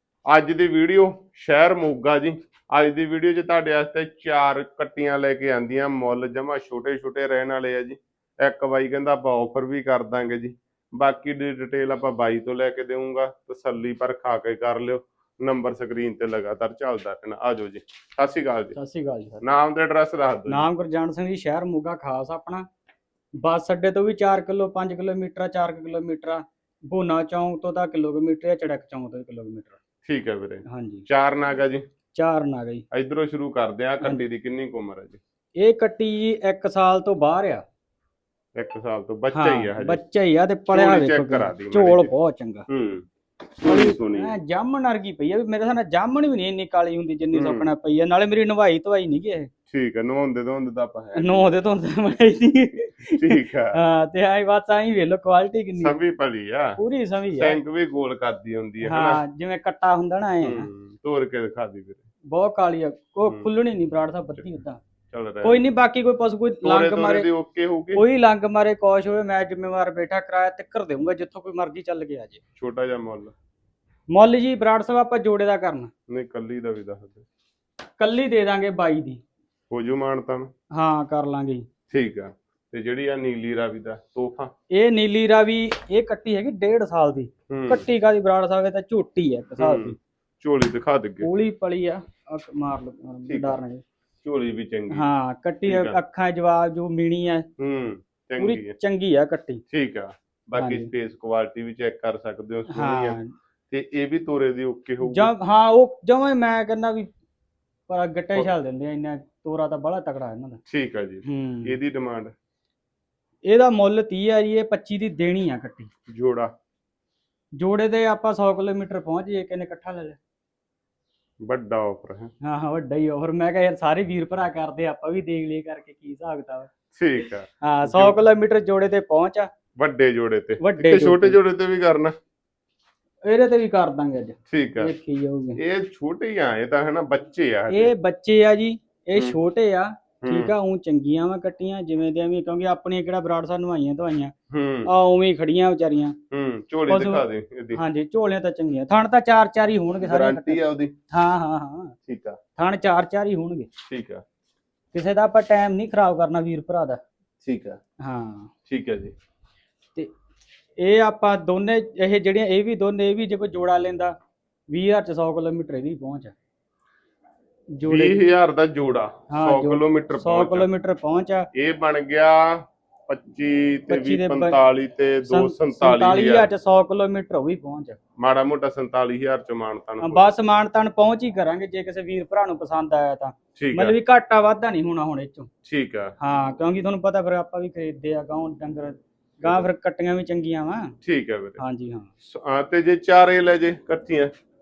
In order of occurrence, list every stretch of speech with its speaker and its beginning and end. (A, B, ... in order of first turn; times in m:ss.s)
0:00.3-0:18.8 A
0:18.8-0:19.4 B
0:19.4-0:20.7 A
0:20.5-0:22.7 B
0:23.4-0:29.8 B
0:30.0-0:31.8 A
0:30.7-0:31.0 B
0:32.1-0:32.8 B
0:32.9-0:35.2 A
0:35.6-0:37.6 B
0:38.6-0:40.0 A
0:39.3-0:42.7 B
0:40.7-0:42.1 A
0:42.7-0:43.1 A
0:43.6-0:44.4 A
0:43.7-0:49.5 B
0:47.3-0:47.7 A
0:49.7-0:51.4 A
0:51.2-0:56.0 B
0:53.1-0:53.8 A
0:55.8-0:56.8 A
0:56.8-0:57.6 B
0:57.4-0:59.2 A
0:58.8-1:00.7 B
1:00.4-1:02.0 A
1:02.3-1:04.8 B
1:05.1-1:05.6 A
1:05.4-1:07.3 B
1:06.6-1:08.0 A
1:08.0-1:12.4 B
1:12.6-1:13.3 A
1:14.1-1:15.9 B
1:16.1-1:17.2 A
1:18.0-1:19.2 B
1:19.7-1:20.5 A
1:20.7-1:21.7 B
1:21.9-1:24.5 A
1:24.7-1:30.0 B
1:27.5-1:27.9 A
1:29.6-1:31.3 A
1:31.2-1:33.8 B
1:33.3-1:33.6 A
1:34.2-1:35.1 A
1:34.9-1:37.5 B
1:35.7-1:36.0 A
1:37.6-1:38.8 A
1:38.4-1:39.6 B
1:39.7-1:43.2 A
1:40.6-1:40.9 B
1:42.7-1:43.3 B
1:43.7-1:45.3 A
1:45.0-1:47.1 B
1:47.9-1:50.6 B
1:50.7-1:52.3 A
1:51.2-1:51.8 B
1:53.4-1:55.9 B
1:56.1-1:56.5 A
1:57.6-2:00.2 B
2:01.4-2:02.3 A
2:02.4-2:06.7 B
2:06.9-2:08.2 A
2:07.6-2:09.5 B
2:09.8-2:12.1 A
2:10.6-2:11.4 B
2:13.3-2:15.6 B
2:14.5-2:14.9 A
2:15.6-2:17.9 A
2:17.7-2:24.3 B
2:20.2-2:20.5 A
2:24.5-2:24.9 A
2:24.8-2:26.2 B
2:26.3-2:27.8 A
2:26.9-2:30.6 B
2:30.0-2:30.9 A
2:31.1-2:32.0 B
2:32.1-2:32.4 A
2:32.6-2:33.7 B
2:33.9-2:34.2 A
2:34.9-2:37.0 B
2:37.4-2:37.8 A
2:38.0-2:38.5 B
2:38.7-2:39.1 A
2:40.8-2:44.2 B
2:44.7-2:46.3 B
2:47.7-2:48.2 B
2:47.8-2:50.7 A
2:49.3-2:51.5 B
2:51.5-2:56.5 A
2:53.9-2:54.6 B
2:55.3-2:58.0 B
2:58.2-3:00.3 A
3:00.0-3:05.5 B
3:03.6-3:04.0 A
3:05.6-3:06.1 A
3:06.2-3:11.0 B
3:11.0-3:11.6 A
3:11.6-3:12.1 B
3:12.2-3:14.3 A